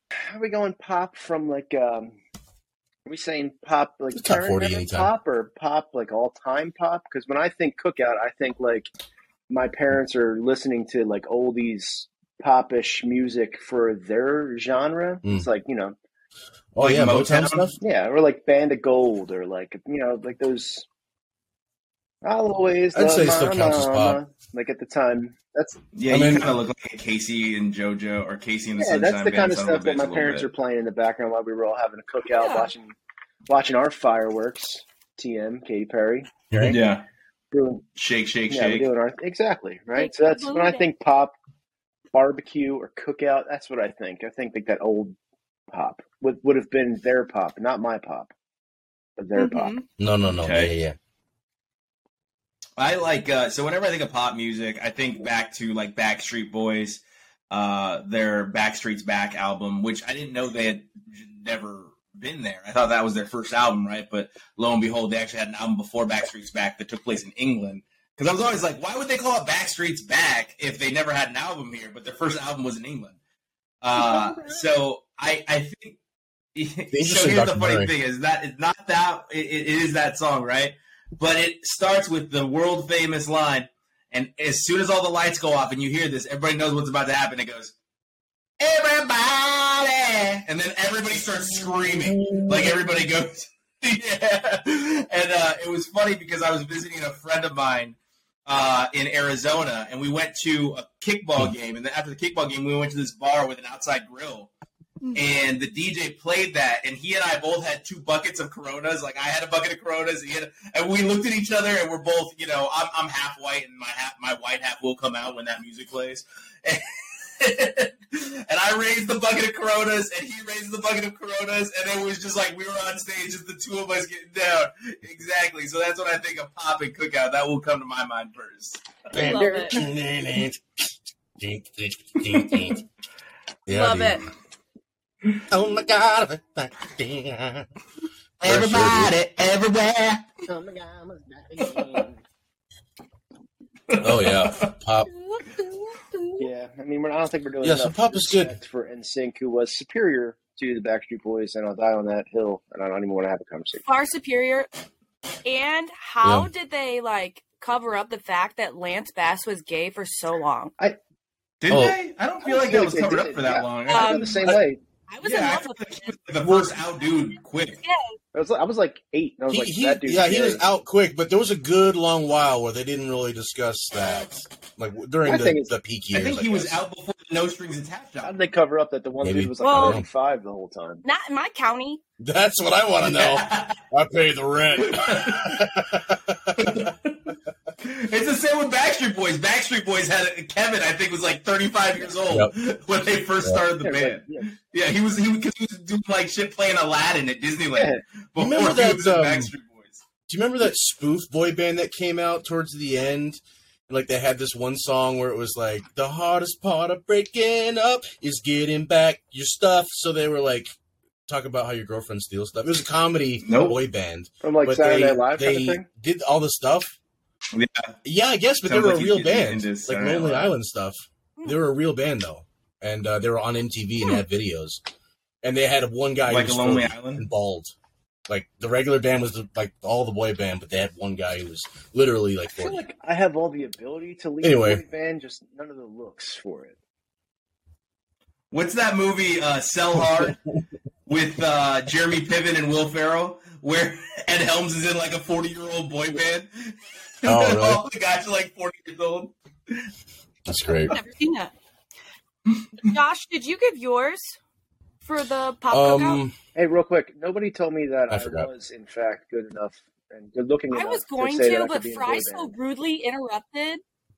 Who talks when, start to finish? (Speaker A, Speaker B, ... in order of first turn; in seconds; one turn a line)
Speaker A: 0.2-2.2
Speaker A: 3.0-8.9
Speaker B: 4.1-5.1
Speaker A: 9.5-15.9
Speaker B: 16.7-17.8
Speaker C: 16.8-17.7
Speaker A: 17.8-20.9
Speaker A: 22.2-25.8
Speaker B: 22.9-24.2
Speaker C: 25.9-30.5
Speaker B: 26.1-26.5
Speaker A: 28.8-32.9
Speaker D: 32.3-32.7
Speaker A: 33.5-36.3
Speaker B: 36.5-36.8
Speaker C: 36.6-37.0
Speaker A: 37.5-37.9
Speaker C: 38.0-38.9
Speaker A: 38.5-41.3
Speaker D: 40.0-40.9
Speaker A: 42.1-45.1
Speaker A: 45.7-48.3
Speaker A: 49.2-49.7
Speaker D: 49.3-49.9
Speaker B: 50.0-51.0
Speaker C: 50.4-50.7
Speaker C: 52.8-73.2
Speaker C: 73.8-76.0
Speaker A: 74.0-74.6
Speaker C: 76.5-87.7
Speaker B: 76.9-77.9
Speaker C: 88.6-104.5
Speaker B: 92.1-92.8
Speaker C: 105.1-128.8
Speaker B: 129.1-130.6
Speaker D: 129.1-129.8
Speaker A: 129.2-129.8
Speaker B: 131.4-132.8
Speaker C: 132.2-132.7
Speaker B: 133.7-134.2
Speaker D: 133.7-134.2
Speaker B: 135.5-137.7
Speaker C: 138.4-140.3
Speaker B: 138.4-139.1
Speaker A: 140.4-142.2
Speaker C: 141.6-141.9
Speaker C: 143.9-144.7
Speaker B: 144.0-145.1
Speaker D: 145.1-146.4
Speaker A: 146.4-153.8
Speaker B: 147.6-148.6
Speaker D: 153.8-154.7
Speaker D: 155.4-160.7
Speaker B: 156.2-156.5
Speaker C: 161.6-164.6
Speaker B: 161.7-162.0
Speaker A: 162.4-164.8
Speaker D: 163.9-164.5
Speaker D: 165.1-168.2
Speaker C: 165.2-167.8
Speaker A: 168.3-170.6
Speaker B: 169.5-176.8
Speaker A: 175.2-175.7
Speaker C: 176.1-178.4
Speaker A: 178.2-181.0
Speaker B: 179.2-180.1
Speaker D: 179.6-180.0
Speaker D: 181.0-182.0
Speaker B: 182.2-186.9
Speaker C: 183.0-183.8
Speaker C: 184.7-185.7
Speaker C: 186.6-200.0
Speaker A: 193.8-194.5
Speaker A: 197.8-198.0
Speaker B: 198.4-199.5
Speaker B: 200.3-210.7
Speaker B: 211.3-217.0
Speaker C: 213.4-213.8
Speaker A: 214.4-215.8
Speaker C: 217.5-217.9
Speaker B: 218.0-224.8
Speaker C: 218.6-220.5
Speaker B: 225.4-227.7
Speaker C: 226.3-227.2
Speaker B: 228.3-232.8
Speaker A: 232.6-236.8
Speaker B: 234.4-234.8
Speaker C: 238.5-240.4
Speaker B: 240.0-240.3
Speaker C: 241.1-249.9
Speaker B: 247.2-247.8
Speaker B: 250.5-250.9
Speaker D: 250.7-251.5
Speaker D: 252.8-254.4
Speaker D: 255.0-256.2
Speaker B: 255.7-256.3
Speaker A: 256.5-262.5
Speaker B: 258.1-258.5
Speaker D: 260.7-263.8